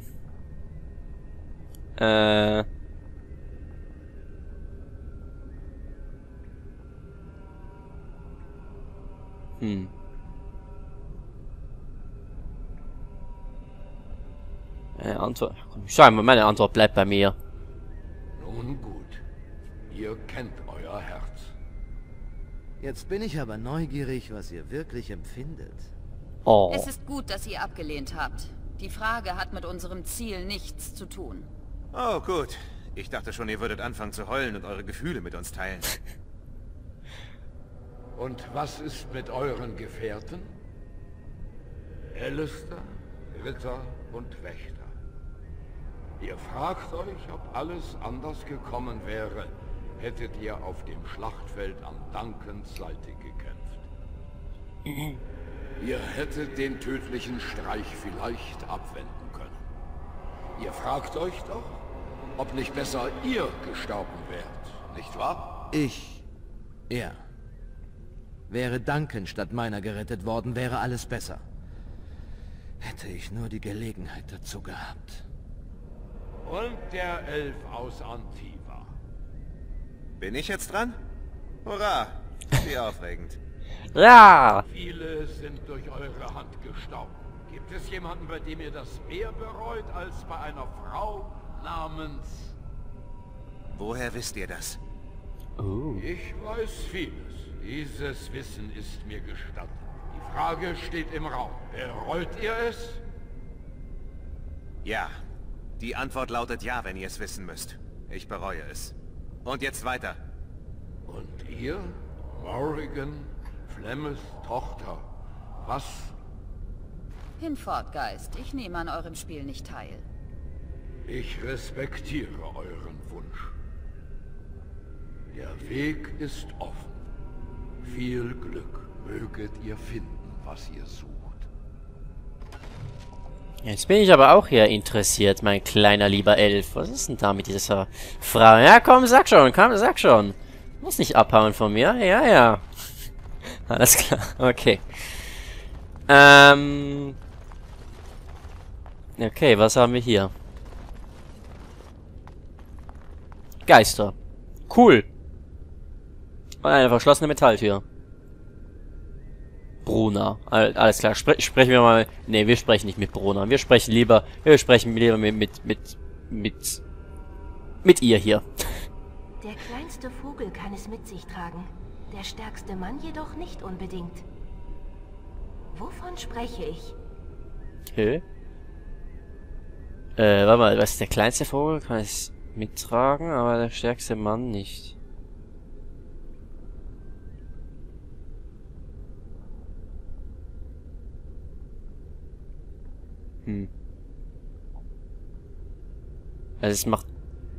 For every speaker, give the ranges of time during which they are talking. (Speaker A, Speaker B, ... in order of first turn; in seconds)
Speaker A: 2.0-2.7, 9.6-9.9, 15.0-17.4, 26.5-26.9, 54.9-55.2, 84.0-84.7, 95.6-96.0, 133.6-142.6, 143.7-145.3, 146.1-147.2, 149.2-150.3, 153.7-154.2, 154.7-155.1, 156.6-157.8, 159.8-166.8, 167.8-168.8, 177.9-178.2, 180.2-184.9, 196.6-197.1
Speaker B: 18.4-19.2, 19.9-21.6, 38.2-40.5, 42.1-44.9, 46.2-53.9, 55.8-59.6, 60.6-61.8, 62.4-65.6, 76.4-78.9, 84.7-92.6, 95.9-103.0, 111.1-115.1, 115.6-116.2, 121.1-123.5, 125.3-127.0, 127.8-131.5
Speaker C: 22.8-25.9, 65.7-66.2, 66.9-67.2, 68.5-71.4, 72.8-75.2
Speaker D: 26.7-31.5, 117.4-120.1
Speaker E: 31.9-36.0, 80.2-81.0, 81.7-83.4, 93.7-94.8, 104.8-105.1, 105.8-110.2
Speaker F: 169.4-174.3, 175.7-177.0